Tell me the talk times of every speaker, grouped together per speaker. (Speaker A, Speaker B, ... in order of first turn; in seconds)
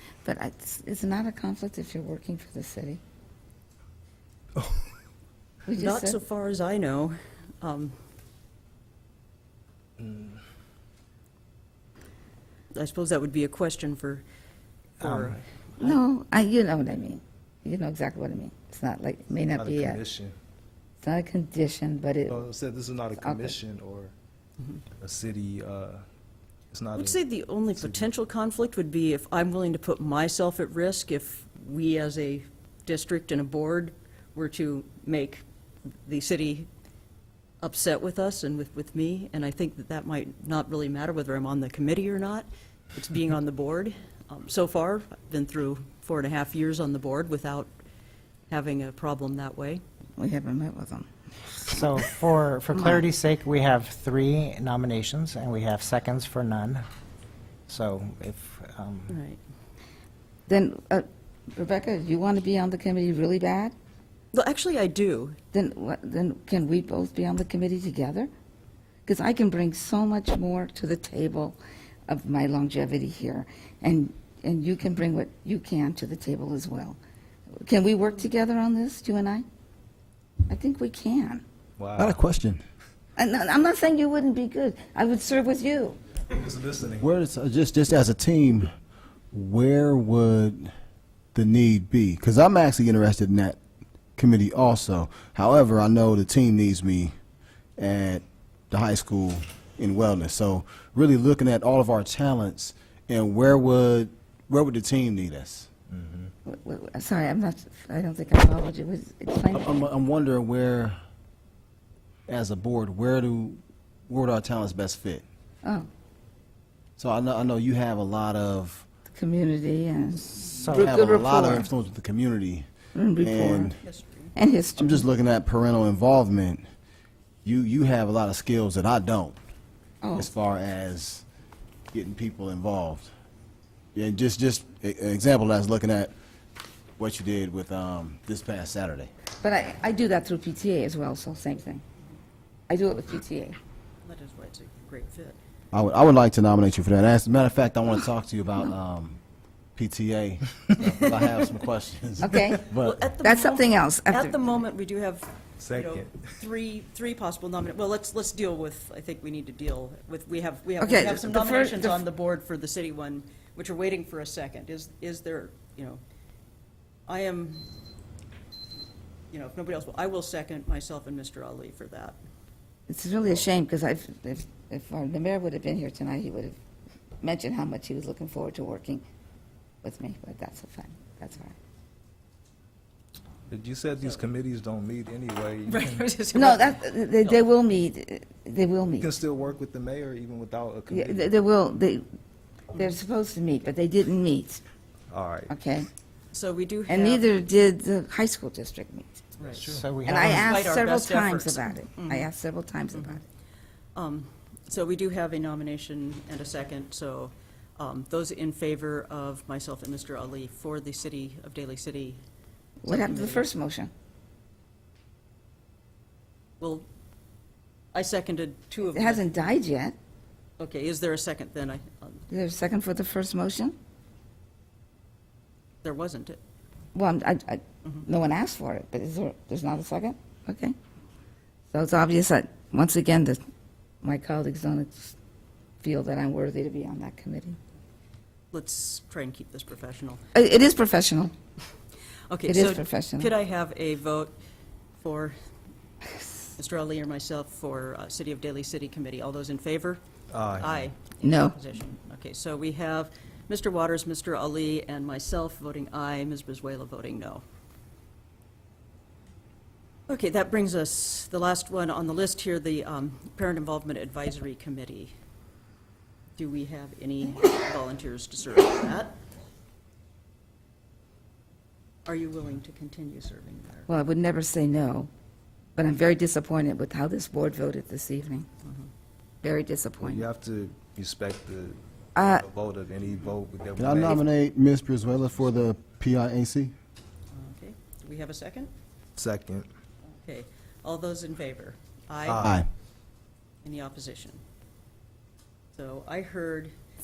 Speaker A: 0.2-3.0, 5.7-6.2, 15.8-20.0, 21.0-22.4, 23.1-23.6, 50.2-51.8, 52.8-53.1, 60.5-63.8, 65.5-68.3, 69.1-71.6, 72.1-77.0, 77.6-79.5, 80.5-81.4, 83.2-86.0, 106.5-109.7, 119.1-121.7, 123.0-123.7, 124.3-125.1, 130.0-130.3, 139.4-141.8, 142.7-143.6, 152.2-152.7, 153.2-154.5, 160.8-162.0, 172.9-176.6, 177.2-179.0, 179.8-181.6, 186.3-189.1, 190.9-192.1, 192.8-194.6, 195.5-195.9, 196.9-199.2, 200.1-203.2, 212.8-213.9, 218.9-219.9, 222.3-223.8, 226.9-230.8, 231.7-233.4, 234.0-235.2, 235.8-237.6, 240.3-241.3, 242.4-243.3, 251.2-251.6, 273.9-275.1, 275.8-278.5, 279.4-280.2, 282.1-282.4
Speaker B: 4.6-4.9, 10.0-10.4, 15.0-15.4, 19.6-20.4, 22.3-24.1, 25.0-26.0, 26.7-27.2, 27.8-28.0, 81.8-82.2, 86.3-87.1, 105.9-106.3, 155.6-156.3, 183.5-186.1, 189.0-191.3, 195.1-195.5, 199.4-199.9, 250.3-250.9, 280.0-284.2, 289.2-289.7, 292.2-292.6
Speaker C: 5.8-8.0, 12.7-14.2, 15.0-16.0, 27.0-35.4, 36.0-36.7, 37.6-47.7, 48.5-49.8, 59.1-59.4, 64.3-65.4, 123.8-124.3, 144.1-145.4, 150.8-151.5, 152.7-166.0, 167.1-167.7, 169.3-172.2, 185.7-187.4, 196.3-197.3, 199.4-199.7, 200.3-202.3, 202.9-203.2, 203.9-212.2, 212.9-213.5, 216.6-216.9, 217.9-219.3, 220.6-222.2, 225.8-226.4, 238.5-240.2, 242.3-244.3, 245.0-245.3, 246.6-250.0, 250.6-257.4, 260.1-265.1, 266.4-269.2, 272.1-273.9, 287.3-288.7, 290.2-292.4, 293.6-294.4, 295.7-296.7
Speaker D: 51.7-56.9, 57.7-59.2, 120.5-121.0, 199.7-200.6
Speaker E: 82.0-82.6, 87.0-88.7, 89.3-90.7, 91.3-93.6, 94.2-97.1, 97.8-105.7, 109.5-111.0, 112.3-115.2, 117.0-118.8, 120.7-122.7, 123.2-123.8, 124.8-126.7, 127.5-129.4, 130.2-131.2, 131.9-133.1, 133.9-136.1, 137.0-139.1, 145.7-149.2, 149.8-153.0, 283.8-286.7, 292.4-292.7